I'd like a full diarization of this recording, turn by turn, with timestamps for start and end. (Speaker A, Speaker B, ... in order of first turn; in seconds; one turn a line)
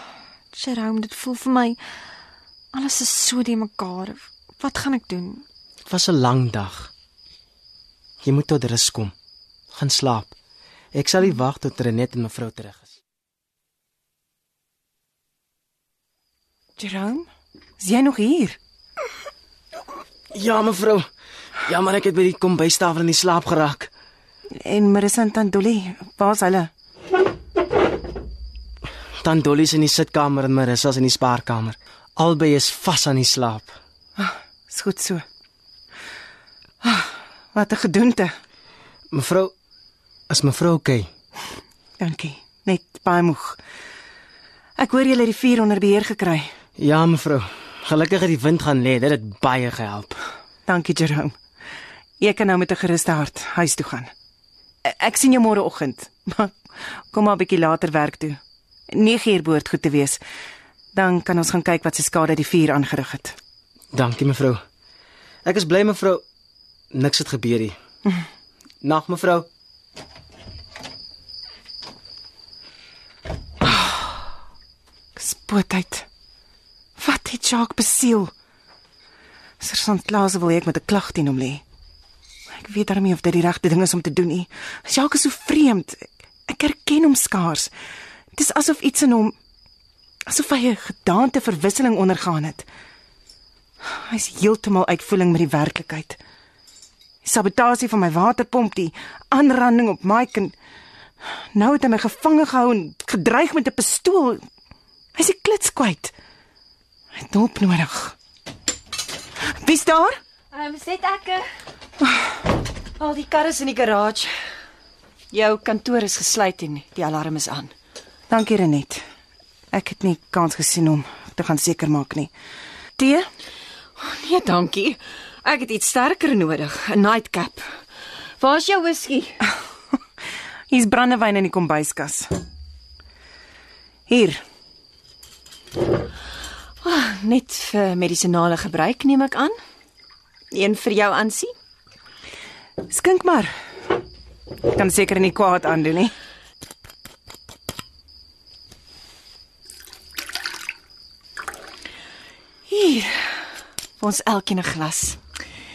Speaker A: 0.5-1.8
Speaker A: 2.7-5.4
Speaker B: 5.9-6.9
Speaker B: 8.2-9.1
Speaker B: 9.7-10.3
Speaker B: 10.9-13.0
Speaker C: 16.8-17.3
Speaker C: 17.8-18.6
Speaker B: 20.3-21.1
Speaker B: 21.7-23.9
Speaker C: 24.6-26.7
Speaker B: 29.2-33.7
Speaker C: 34.2-35.2
Speaker C: 36.8-38.3
Speaker B: 39.1-39.5
Speaker B: 40.3-41.1
Speaker C: 42.0-43.6
Speaker C: 44.8-46.5
Speaker B: 46.8-50.2
Speaker C: 50.7-51.4
Speaker C: 52.2-54.1
Speaker C: 54.9-56.5
Speaker C: 57.1-58.4
Speaker C: 58.9-60.2
Speaker C: 60.9-63.4
Speaker B: 63.9-64.6
Speaker B: 65.4-66.2
Speaker B: 66.9-67.8
Speaker B: 68.8-69.5
Speaker C: 75.2-76.1
Speaker C: 77.0-78.3
Speaker C: 79.6-81.6
Speaker C: 82.5-87.7
Speaker C: 88.3-89.3
Speaker C: 90.3-92.7
Speaker C: 93.8-96.2
Speaker C: 97.2-100.5
Speaker C: 101.5-104.4
Speaker C: 105.2-106.1
Speaker C: 107.1-108.2
Speaker C: 109.5-110.2
Speaker D: 110.5-111.5
Speaker D: 113.0-114.3
Speaker D: 115.3-117.7
Speaker C: 118.3-119.0
Speaker C: 119.7-122.3
Speaker C: 123.0-123.3
Speaker D: 124.0-127.7
Speaker D: 128.4-129.4
Speaker C: 130.7-132.3
Speaker C: 134.1-134.4
Speaker D: 136.8-139.6
Speaker D: 140.5-141.5
Speaker C: 142.9-143.5
Speaker C: 144.7-146.1
Speaker D: 152.7-153.4
Speaker D: 154.0-155.2